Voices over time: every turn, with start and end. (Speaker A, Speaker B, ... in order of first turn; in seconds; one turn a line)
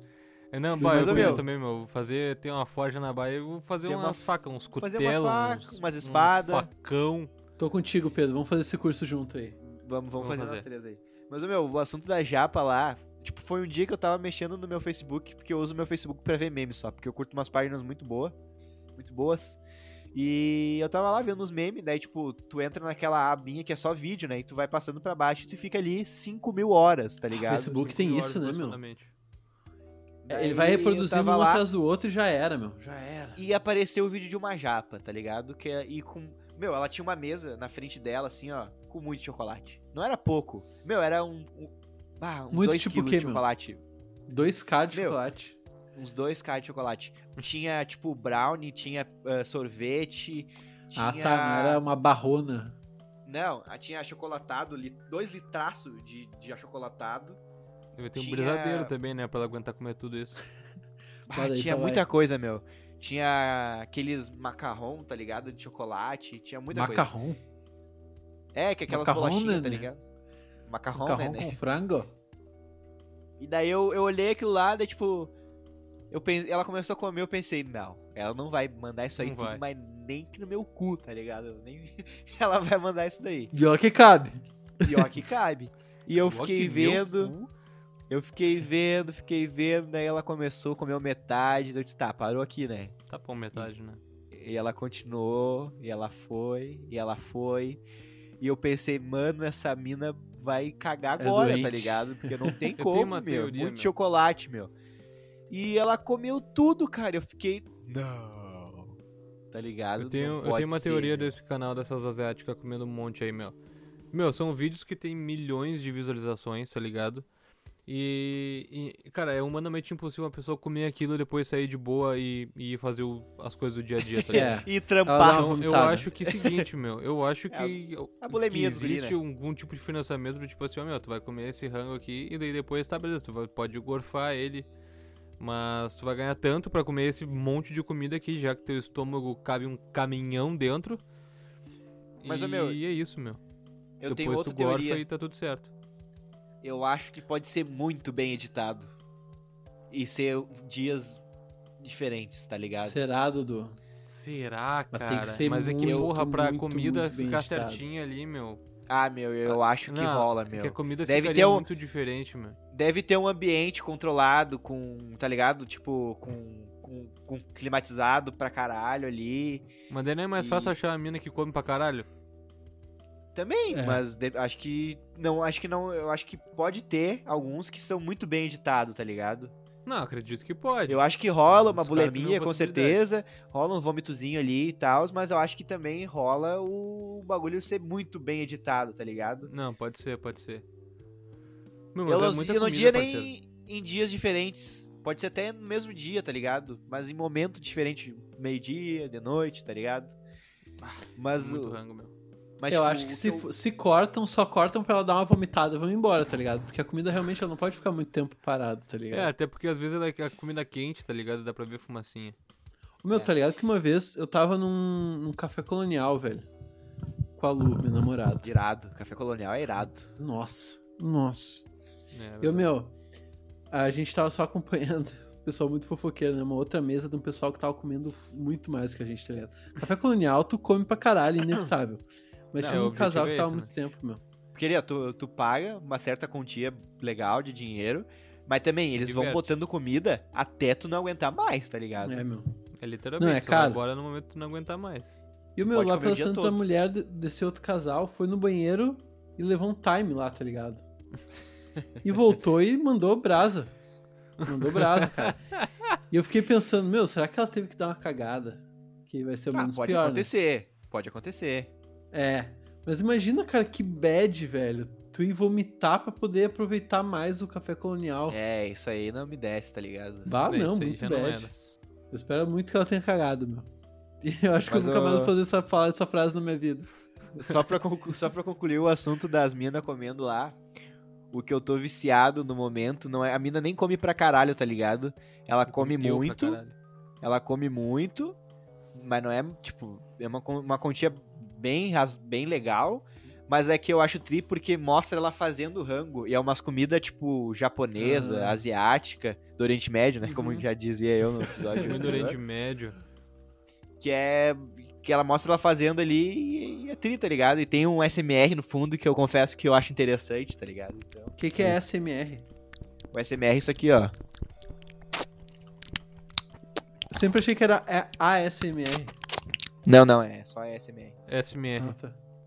Speaker A: 0.5-7.3
Speaker B: 0.8-1.4
Speaker C: 0.8-1.4
Speaker C: 3.9-4.2
Speaker C: 4.8-6.7
Speaker B: 7.6-9.6
Speaker C: 9.6-18.3
Speaker A: 10.2-10.7
Speaker C: 19.0-19.6
Speaker C: 20.1-27.9
Speaker B: 27.3-28.8
Speaker A: 27.7-29.1
Speaker C: 30.2-31.7
Speaker B: 30.3-33.4
Speaker C: 33.4-43.8
Speaker B: 42.5-43.4
Speaker B: 44.3-45.6
Speaker C: 44.9-45.2
Speaker C: 46.0-51.8
Speaker B: 51.0-52.8
Speaker C: 53.3-57.4
Speaker A: 58.0-60.5
Speaker C: 58.1-58.9
Speaker C: 61.3-67.1
Speaker B: 61.3-62.0
Speaker B: 66.7-67.4
Speaker C: 68.5-70.0
Speaker B: 68.9-69.9
Speaker C: 70.7-71.6
Speaker B: 71.0-72.1
Speaker C: 73.4-75.3
Speaker C: 76.1-83.5
Speaker A: 79.2-79.6
Speaker B: 83.5-85.1
Speaker C: 84.8-87.3
Speaker A: 86.2-87.5
Speaker C: 88.1-92.9
Speaker A: 93.1-94.0
Speaker C: 94.3-97.8
Speaker C: 98.4-104.7
Speaker B: 101.2-102.7
Speaker A: 102.8-103.9
Speaker C: 105.5-109.0
Speaker C: 109.5-111.3
Speaker A: 110.0-113.6
Speaker A: 114.1-117.2
Speaker A: 117.9-124.5
Speaker B: 124.3-126.1
Speaker C: 124.3-126.7
Speaker A: 125.2-134.7
Speaker C: 127.5-129.2
Speaker A: 135.4-141.0
Speaker A: 142.2-143.4
Speaker C: 142.2-142.8
Speaker C: 144.0-145.1
Speaker A: 144.1-145.7
Speaker C: 146.6-148.9
Speaker C: 149.9-151.2
Speaker C: 151.8-153.1
Speaker B: 152.8-153.8
Speaker A: 154.0-158.6
Speaker B: 154.9-157.8
Speaker C: 155.8-156.1
Speaker C: 158.9-161.7
Speaker A: 159.4-162.6
Speaker C: 162.7-169.7
Speaker A: 169.9-172.1
Speaker C: 170.4-170.8
Speaker C: 173.3-179.5
Speaker B: 173.7-174.0
Speaker A: 179.9-183.1
Speaker C: 180.9-189.5
Speaker A: 189.5-190.7
Speaker A: 191.9-193.3
Speaker C: 192.1-200.2
Speaker A: 200.8-202.1
Speaker C: 201.2-201.8
Speaker C: 202.6-203.5
Speaker B: 202.7-209.3
Speaker A: 209.1-212.3
Speaker B: 213.0-216.5
Speaker B: 217.4-218.5
Speaker C: 218.4-220.1
Speaker B: 220.2-221.6
Speaker A: 222.1-222.7
Speaker B: 222.4-222.9
Speaker B: 223.7-234.2
Speaker C: 232.6-232.9
Speaker A: 232.6-233.7
Speaker C: 234.6-242.2
Speaker A: 239.0-239.6
Speaker B: 242.0-242.5
Speaker A: 242.8-245.2
Speaker B: 243.2-243.8
Speaker B: 245.6-250.8
Speaker C: 245.7-246.6
Speaker B: 252.0-253.7
Speaker A: 254.4-255.3
Speaker B: 254.5-255.4
Speaker B: 256.1-260.3
Speaker C: 259.5-261.7
Speaker B: 262.1-268.4
Speaker C: 268.3-270.4
Speaker B: 270.3-271.5
Speaker A: 270.4-271.8
Speaker B: 272.1-273.7
Speaker B: 274.2-276.9
Speaker C: 274.7-275.3
Speaker C: 277.4-280.6
Speaker C: 281.3-286.6
Speaker A: 285.7-286.8
Speaker C: 287.2-288.4
Speaker C: 288.9-302.4
Speaker B: 298.0-298.6
Speaker B: 300.3-300.7
Speaker B: 301.4-302.3
Speaker A: 301.8-303.0
Speaker C: 304.0-311.8
Speaker B: 311.4-312.5
Speaker C: 313.1-314.1
Speaker B: 317.1-319.1
Speaker C: 319.9-321.2
Speaker A: 321.3-322.0
Speaker B: 321.8-322.2